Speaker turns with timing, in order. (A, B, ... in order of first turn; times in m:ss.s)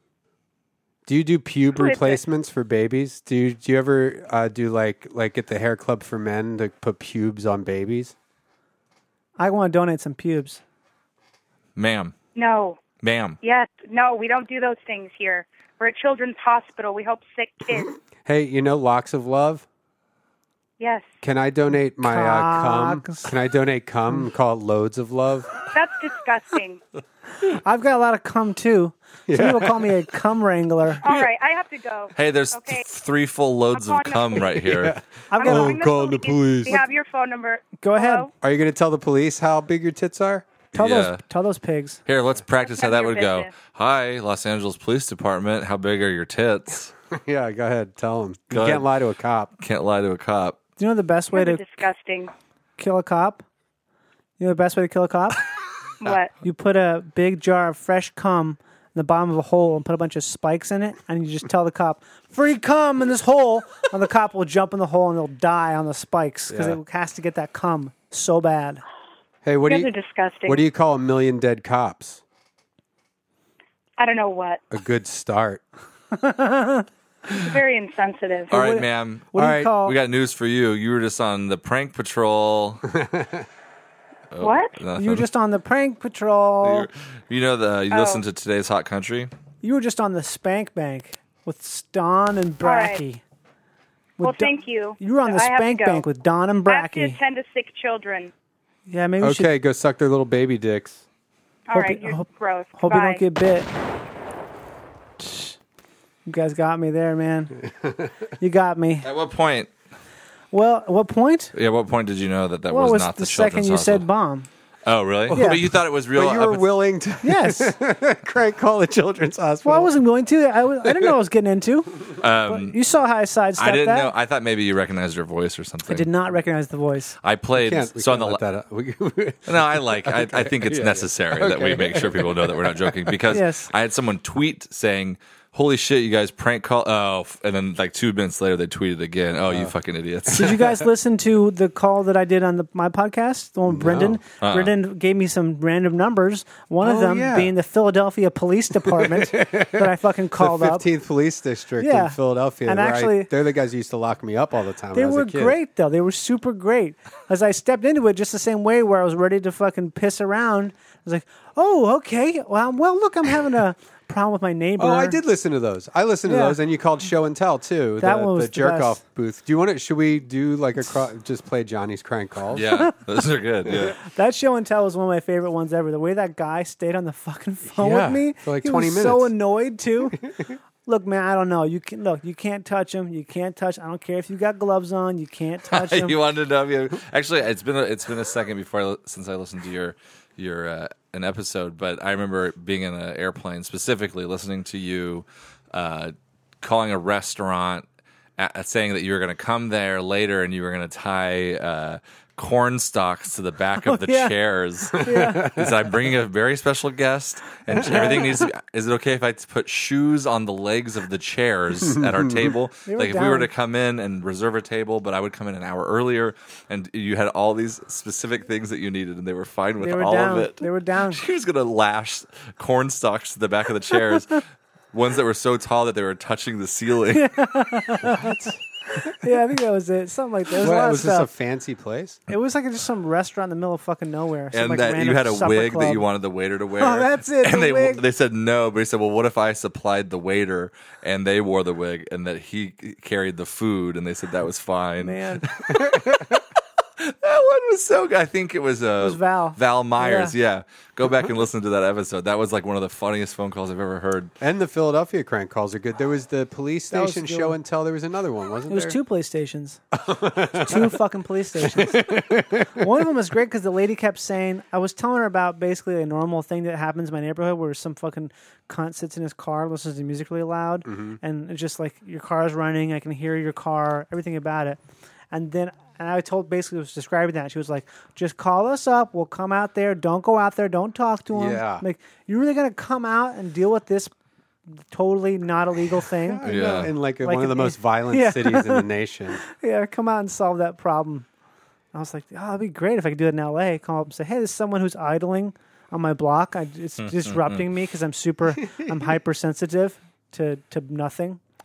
0:01.0-0:08.1 A
0:01.7-0:02.2 B
0:09.4-0:10.6 C
0:11.8-0:12.1 D
0:12.4-0:12.8 B
0:13.0-0:13.4 D
0:13.4-0:18.0 B
0:18.2-0:19.6 A
0:20.8-0:21.1 B
0:21.2-0:25.6 A
0:22.0-0:23.3 C
0:25.7-0:26.8 B
0:27.4-0:31.0 C
0:29.3-0:30.0 A
0:31.0-0:32.8 B
0:32.2-0:35.0 D
0:33.7-0:34.6 B
0:34.6-0:36.8 A
0:35.3-0:35.8 C
0:35.4-0:38.3 B
0:37.8-0:38.3 C
0:38.4-0:40.5 A
0:40.7-0:42.0 C
0:40.7-0:41.2 D
0:42.0-0:46.9 D
0:42.6-0:43.5 B
0:47.1-0:49.5 A
0:48.5-0:48.9 D
0:49.6-0:50.6 D
0:50.8-0:51.6 C
0:51.3-0:52.3 B
0:52.8-0:53.4 C
0:54.4-0:55.4 C
0:56.0-0:56.3 B
0:56.4-1:08.8 C
1:06.5-1:06.8 A
1:09.4-1:09.9 A
1:09.7-1:10.6 B
1:10.4-1:12.2 A
1:14.0-1:14.6 B
1:14.7-1:15.6 A
1:16.1-1:17.4 C
1:17.3-1:18.5 B
1:18.5-1:19.9 C
1:18.5-1:22.9 D
1:19.3-1:19.7 A
1:22.9-1:23.4 A
1:24.3-1:25.3 D
1:24.4-1:24.7 B
1:25.0-1:26.9 C
1:26.6-1:29.3 D
1:27.9-1:28.2 B
1:29.6-1:33.2 C
1:32.6-1:33.0 B
1:34.2-1:37.2 C
1:34.2-1:36.0 B
1:36.7-1:38.3 B
1:38.9-1:39.5 C
1:39.2-1:41.0 A
1:41.7-1:43.2 B
1:41.7-1:43.7 C
1:45.2-1:45.6 C
1:46.2-1:47.6 C
1:48.4-1:49.1 C
1:49.0-1:49.7 D
1:50.5-1:51.5 C
1:51.5-1:54.0 D
1:52.7-1:54.5 C
1:54.8-1:56.7 D
1:55.3-1:59.9 A
1:55.3-1:55.6 C
1:57.2-1:57.8 C
1:59.6-2:04.1 C
2:00.8-2:01.1 A
2:02.2-2:02.8 D
2:03.6-2:06.1 D
2:05.9-2:07.1 C
2:07.2-2:08.4 D
2:07.6-2:13.2 A
2:09.5-2:20.6 D
2:13.3-2:13.7 C
2:20.3-2:30.8 C
2:20.3-2:20.6 A
2:23.7-2:24.2 A
2:24.4-2:24.7 D
2:26.8-2:27.5 A
2:28.8-2:35.6 A
2:31.8-2:33.3 C
2:34.9-2:45.2 C
2:44.8-2:52.7 A
2:46.3-2:46.6 C
2:48.0-2:49.0 C
2:52.5-2:54.0 D
2:52.7-2:52.9 C
2:54.0-3:00.2 C
2:57.6-2:59.3 A
3:00.8-3:06.2 C
3:05.7-3:17.8 D
3:18.4-3:47.3 D
3:23.8-3:24.3 C
3:25.0-3:25.5 C
3:25.1-3:25.7 A
3:27.7-3:28.4 A
3:31.9-3:32.5 A
3:32.9-3:33.5 C
3:39.8-3:41.2 C
3:47.1-3:51.3 C
3:48.0-3:48.6 A
3:50.6-3:52.2 A
3:52.3-3:56.0 C
3:54.5-4:06.4 D
3:56.8-3:58.0 C
4:05.0-4:05.4 C
4:07.0-4:14.3 D
4:09.0-4:10.3 C
4:14.4-4:19.0 A
4:16.9-4:17.6 C
4:18.7-4:19.8 C
4:19.9-4:21.0 A
4:20.5-4:34.8 C
4:21.6-4:22.8 A
4:30.8-4:31.2 A
4:35.3-4:44.1 C
4:41.3-4:41.8 A
4:44.7-4:48.9 C
4:46.1-4:49.4 A
4:46.4-4:46.9 D
4:49.4-4:51.3 C
4:51.9-5:01.4 C
4:57.0-4:57.6 D